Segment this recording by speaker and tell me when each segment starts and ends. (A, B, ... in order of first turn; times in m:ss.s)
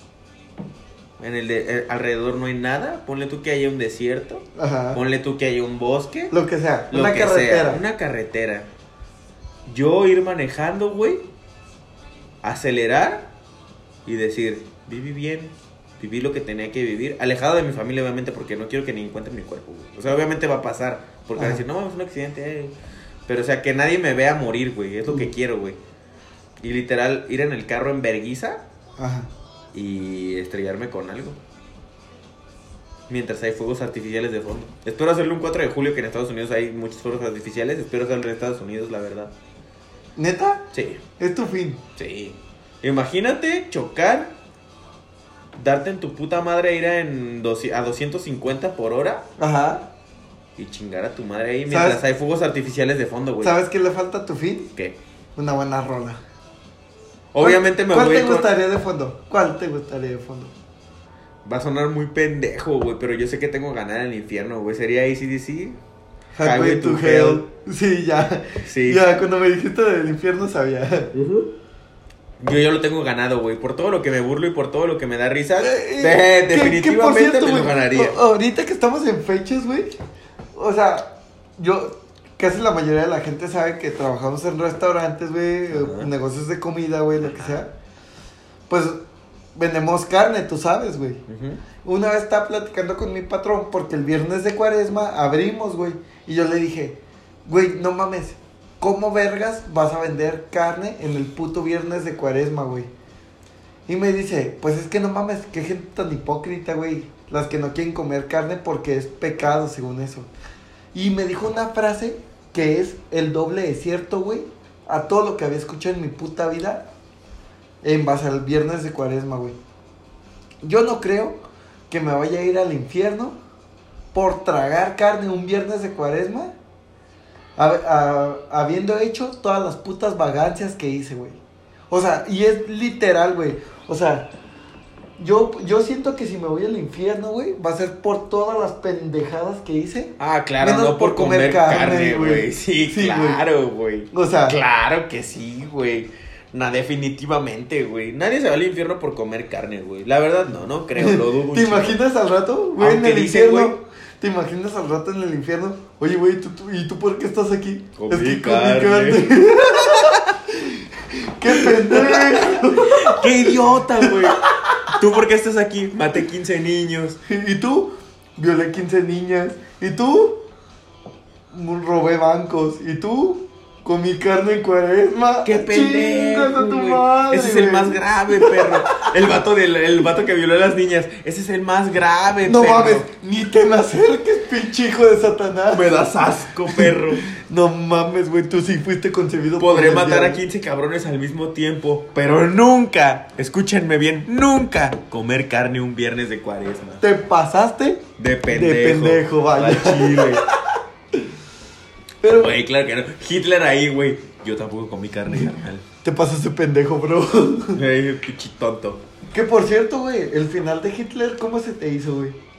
0:01.2-0:06.3 A
0:04.6-0:05.0 B
0:06.3-0:07.8 B
0:06.9-0:08.7 A
0:09.7-0:11.2 A
0:12.4-0:13.3 A
0:14.1-0:22.7 A
0:21.4-0:21.6 B
0:23.3-0:25.8 A
0:26.6-0:28.6 A
0:29.0-0:29.3 B
0:29.7-0:31.4 A
0:33.1-0:39.3 A
0:40.2-0:40.7 B
0:40.7-0:41.0 A
0:41.2-0:41.8 B
0:42.0-0:44.3 A
0:45.6-0:49.3 A
0:49.4-0:49.9 B
0:50.6-0:53.6 A
0:51.7-0:52.0 B
0:53.4-0:54.7 B
0:55.4-0:56.2 B
0:57.3-0:58.5 A
0:57.4-1:00.5 B
1:01.4-1:05.8 A
1:06.4-1:11.1 B
1:06.4-1:07.4 A
1:08.6-1:09.1 A
1:11.1-1:11.5 A
1:12.4-1:18.2 A
1:15.6-1:20.0 B
1:20.5-1:27.7 B
1:25.7-1:26.1 A
1:27.2-1:27.6 A
1:28.7-1:29.0 B
1:29.6-1:31.2 B
1:31.3-1:31.6 A
1:31.8-1:42.9 B
1:43.9-1:50.3 B
1:50.9-1:56.9 B
1:57.8-1:59.6 B
2:00.6-2:01.4 B
2:01.9-2:03.4 B
2:04.1-2:06.5 B
2:07.6-2:11.4 B
2:11.9-2:14.3 B
2:15.2-2:23.4 B
2:20.2-2:32.0 A
2:24.1-2:24.6 B
2:31.0-2:44.9 B
2:32.8-2:33.8 A
2:38.0-2:40.4 A
2:41.5-2:47.2 A
2:47.3-2:50.4 B
2:51.5-2:59.1 B
2:55.4-3:03.1 A
3:02.4-3:10.4 B
3:05.7-3:07.3 A
3:09.6-3:17.0 A
3:17.0-3:21.3 B
3:18.2-3:20.4 A
3:22.2-3:22.6 B
3:22.3-3:25.8 A
3:25.3-3:27.8 B
3:27.7-3:29.0 A
3:29.3-3:32.4 B